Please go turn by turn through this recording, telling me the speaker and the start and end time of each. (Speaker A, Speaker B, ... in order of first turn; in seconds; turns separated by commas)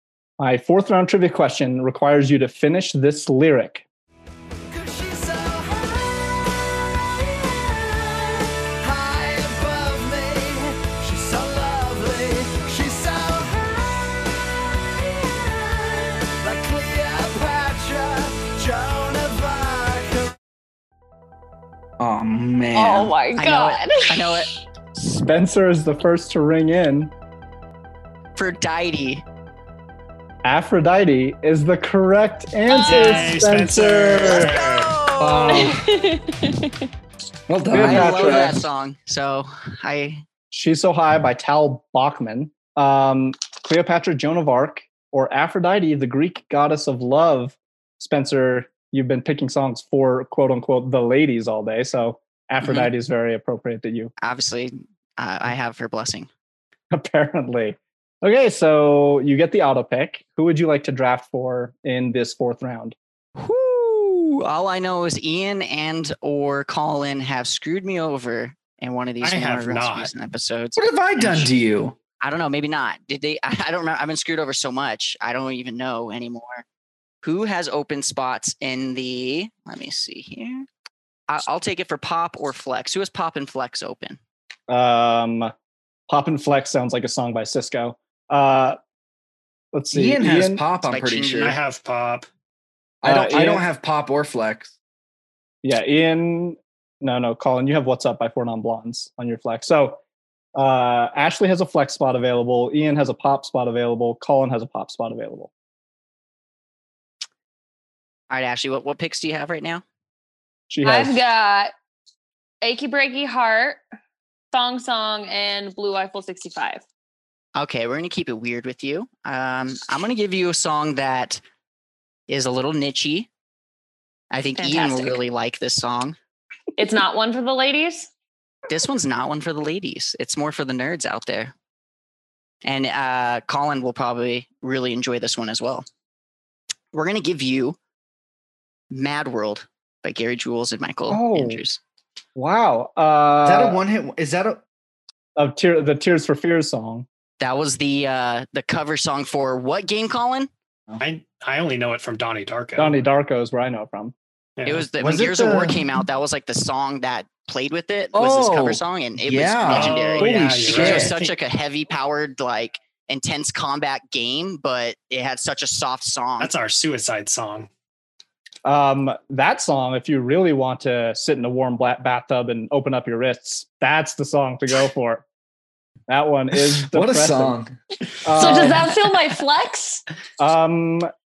Speaker A: 0.4-3.8, Speaker B: 4.7-20.3, Speaker C: 22.0-23.1, Speaker D: 22.7-24.5, Speaker E: 23.4-25.2, Speaker A: 25.1-27.1, Speaker E: 28.4-29.2, Speaker A: 30.4-34.5, Speaker D: 32.7-33.4, Speaker F: 32.9-34.9, Speaker B: 34.4-35.4, Speaker C: 35.2-35.8, Speaker D: 35.5-36.8, Speaker C: 37.5-38.6, Speaker A: 37.7-38.6, Speaker E: 37.7-40.2, Speaker A: 40.5-54.1, Speaker E: 52.6-52.9, Speaker E: 54.2-56.3, Speaker A: 56.9-63.0, Speaker E: 63.4-71.5, Speaker F: 69.2-70.1, Speaker C: 70.8-72.0, Speaker E: 72.2-76.6, Speaker E: 77.2-80.7, Speaker E: 81.3-84.2, Speaker A: 84.7-85.5, Speaker A: 86.1-88.8, Speaker A: 89.7-90.6, Speaker C: 89.9-91.6, Speaker E: 90.9-91.5, Speaker F: 91.3-92.3, Speaker C: 93.0-94.7, Speaker A: 93.0-93.7, Speaker A: 95.6-100.0, Speaker A: 100.5-105.5, Speaker E: 108.3-109.8, Speaker A: 110.7-111.2, Speaker D: 110.8-111.7, Speaker D: 112.6-113.8, Speaker D: 114.5-116.8, Speaker E: 117.5-121.4, Speaker E: 122.3-123.3, Speaker E: 124.3-126.2, Speaker D: 124.6-125.2, Speaker D: 126.8-128.1, Speaker E: 128.7-131.5, Speaker E: 132.6-135.8, Speaker E: 136.9-137.8, Speaker E: 138.9-141.8, Speaker A: 141.1-141.6, Speaker A: 142.3-143.8, Speaker C: 143.4-144.6, Speaker A: 145.3-147.1, Speaker E: 147.4-150.5, Speaker F: 151.0-153.0, Speaker A: 152.8-154.1, Speaker F: 154.6-154.8, Speaker E: 154.7-166.5, Speaker C: 155.0-155.9, Speaker C: 158.1-161.1, Speaker F: 159.7-161.3, Speaker F: 166.4-167.7, Speaker A: 168.6-175.2, Speaker A: 176.1-177.6, Speaker C: 176.8-177.8, Speaker A: 178.2-178.9, Speaker D: 178.3-180.0, Speaker A: 180.4-181.1